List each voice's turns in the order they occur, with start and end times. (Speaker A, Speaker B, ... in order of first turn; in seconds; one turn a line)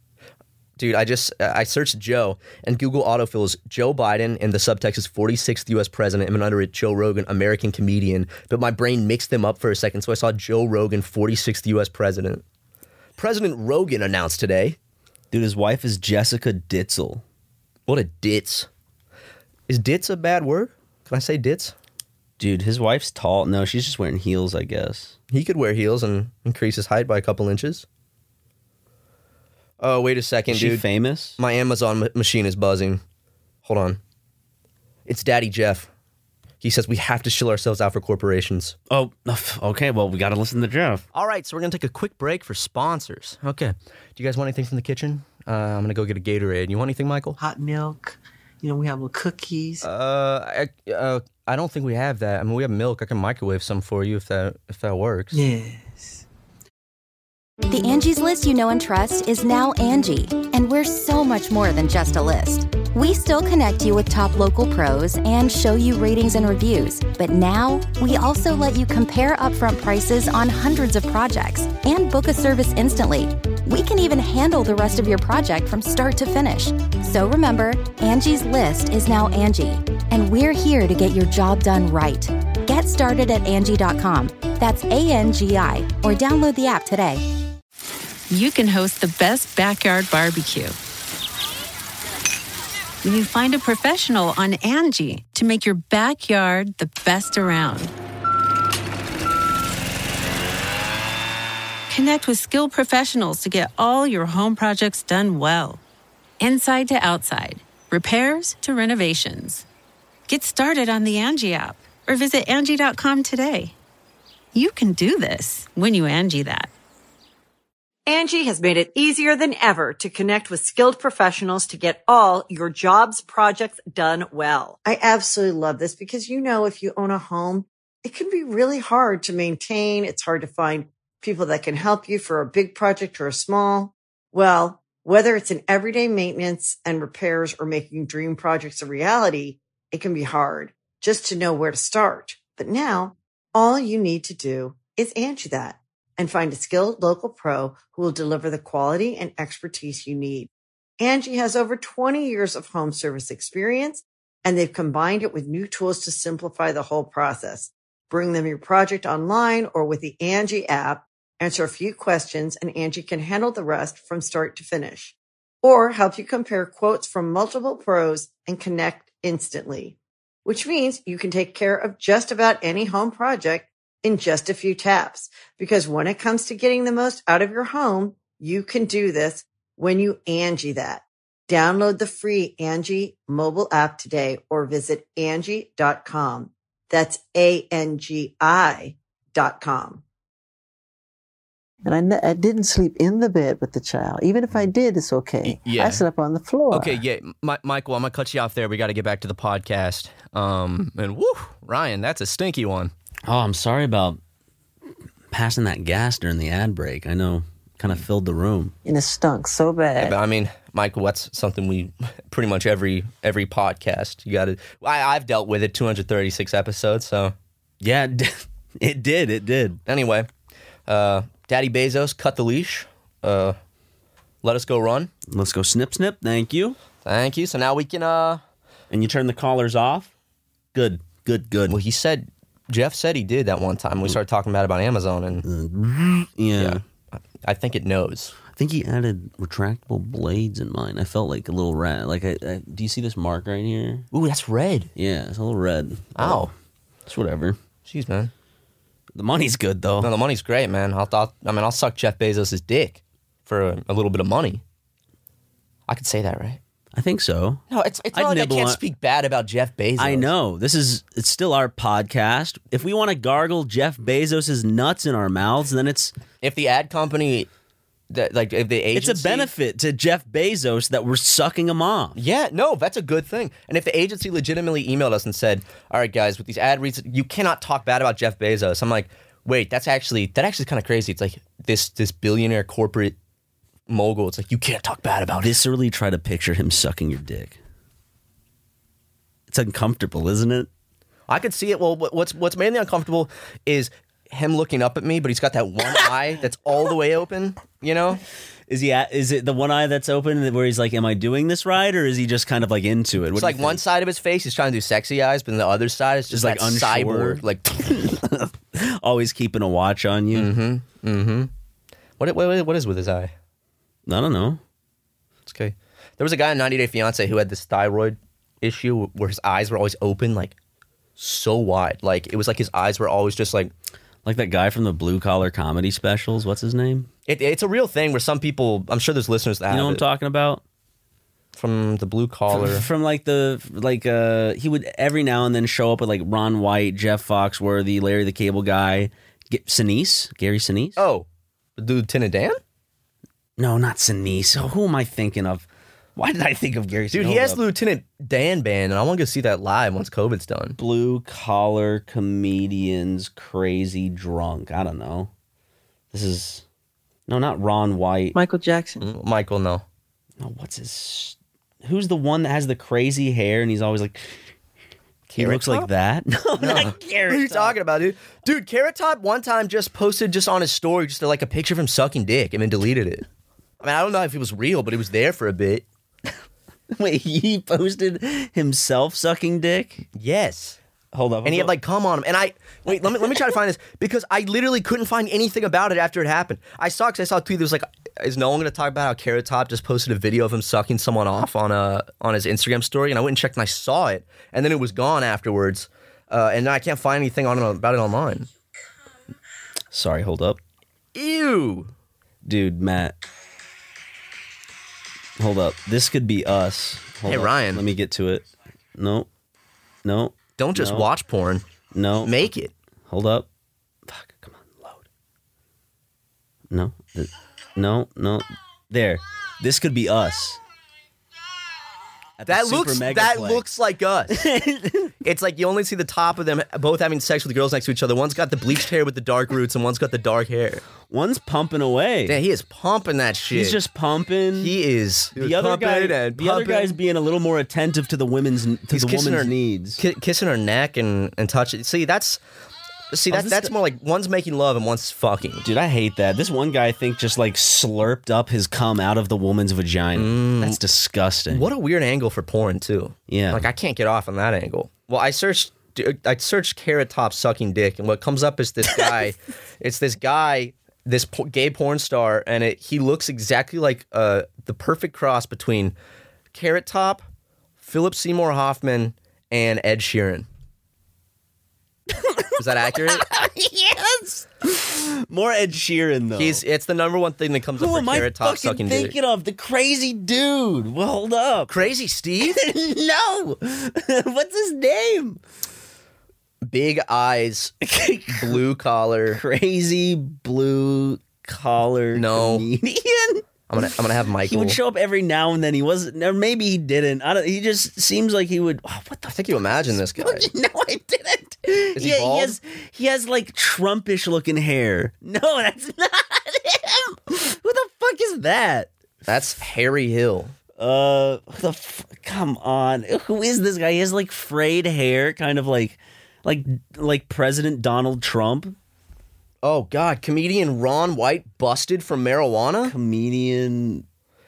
Speaker A: 0.8-12.4
Speaker A: 13.2-14.8
Speaker B: 15.3-17.2
Speaker A: 17.9-18.7
Speaker A: 19.7-21.8
Speaker B: 22.4-25.2
Speaker A: 25.3-27.9
Speaker A: 29.8-30.9
Speaker B: 30.5-31.4
Speaker A: 31.4-33.0
Speaker A: 33.6-34.0
Speaker A: 35.1-35.9
Speaker A: 36.6-38.8
Speaker B: 38.9-41.0
Speaker A: 41.1-47.4
Speaker C: 47.4-49.9
Speaker A: 49.8-55.4
Speaker C: 55.3-56.2
Speaker D: 57.7-87.2
Speaker E: 88.3-90.8
Speaker E: 93.0-97.9
Speaker E: 101.9-105.8
Speaker E: 106.4-109.7
Speaker E: 110.3-113.8
Speaker E: 114.5-116.7
Speaker F: 118.1-190.0
Speaker C: 191.8-197.0
Speaker A: 195.4-196.0
Speaker A: 196.7-202.9
Speaker B: 203.3-204.2
Speaker B: 205.3-208.7
Speaker C: 208.8-210.2
Speaker A: 210.0-217.3
Speaker B: 217.8-219.8
Speaker A: 219.9-220.3
Speaker A: 220.9-223.6
Speaker A: 224.4-225.1
Speaker B: 225.3-226.8
Speaker A: 227.0-228.4
Speaker B: 228.9-230.1
Speaker B: 230.7-231.8
Speaker A: 231.7-235.4
Speaker B: 235.4-236.8
Speaker A: 237.4-238.4
Speaker B: 238.5-244.1
Speaker A: 244.1-244.9
Speaker B: 245.0-246.5
Speaker A: 246.2-246.5
Speaker B: 247.1-247.6
Speaker A: 247.9-248.3
Speaker B: 249.2-250.1
Speaker A: 250.0-254.6
Speaker A: 255.9-256.6
Speaker B: 256.9-257.6
Speaker A: 257.7-260.3
Speaker B: 258.1-258.8
Speaker B: 260.0-266.1
Speaker A: 266.4-267.5
Speaker A: 268.1-269.5
Speaker B: 268.9-272.2
Speaker A: 272.2-283.2
Speaker A: 283.9-285.6
Speaker B: 285.4-287.6
Speaker B: 289.5-290.7
Speaker A: 291.3-298.2
Speaker B: 298.7-303.8
Speaker A: 303.3-307.8
Speaker B: 306.3-310.5
Speaker A: 310.3-311.5
Speaker A: 312.2-313.3
Speaker B: 314.1-314.6
Speaker A: 315.5-320.6
Speaker A: 321.2-323.7
Speaker B: 324.2-327.1
Speaker A: 327.3-330.0
Speaker B: 329.7-330.6
Speaker A: 331.6-332.9
Speaker B: 332.5-341.0
Speaker A: 341.0-342.6
Speaker B: 343.6-347.6
Speaker A: 347.1-350.8
Speaker B: 350.8-355.3
Speaker B: 356.1-356.6
Speaker B: 357.3-358.4
Speaker C: 358.4-359.0
Speaker A: 359.0-359.9
Speaker B: 360.4-364.4
Speaker A: 365.3-365.9
Speaker B: 365.4-367.8
Speaker A: 366.6-373.2
Speaker A: 373.8-375.9
Speaker B: 376.9-380.1
Speaker A: 380.1-380.8
Speaker B: 381.1-381.7
Speaker A: 381.4-398.5
Speaker B: 399.9-400.6
Speaker A: 401.1-401.9
Speaker B: 402.4-403.2
Speaker B: 405.4-409.3
Speaker A: 407.3-407.8
Speaker B: 410.0-411.1
Speaker A: 410.6-411.7
Speaker B: 411.9-412.4
Speaker A: 412.2-412.7
Speaker B: 413.1-413.5
Speaker B: 414.1-415.0
Speaker B: 416.7-420.6
Speaker B: 422.4-423.6
Speaker A: 422.5-424.4
Speaker B: 424.3-425.1
Speaker A: 425.2-430.9
Speaker B: 431.1-432.4
Speaker A: 432.3-433.8
Speaker B: 433.5-434.8
Speaker A: 434.6-437.0
Speaker B: 435.4-440.0
Speaker A: 438.9-442.4
Speaker A: 443.1-445.6
Speaker B: 443.3-443.7
Speaker B: 445.6-451.7
Speaker A: 450.1-450.8
Speaker A: 451.5-465.9
Speaker B: 453.3-453.7
Speaker A: 466.5-467.2
Speaker A: 467.8-470.5
Speaker B: 472.1-476.6
Speaker A: 472.6-473.3
Speaker A: 476.4-479.1
Speaker B: 477.8-481.9
Speaker A: 481.7-482.6
Speaker B: 482.4-485.4
Speaker A: 486.7-487.8
Speaker B: 487.8-488.6
Speaker A: 488.3-489.4
Speaker B: 489.3-493.8
Speaker A: 492.1-492.7
Speaker A: 493.7-494.8
Speaker B: 494.4-508.9
Speaker A: 499.3-500.5
Speaker A: 501.9-502.6
Speaker A: 509.3-510.6
Speaker B: 510.8-518.8
Speaker A: 519.6-522.9
Speaker B: 522.9-524.0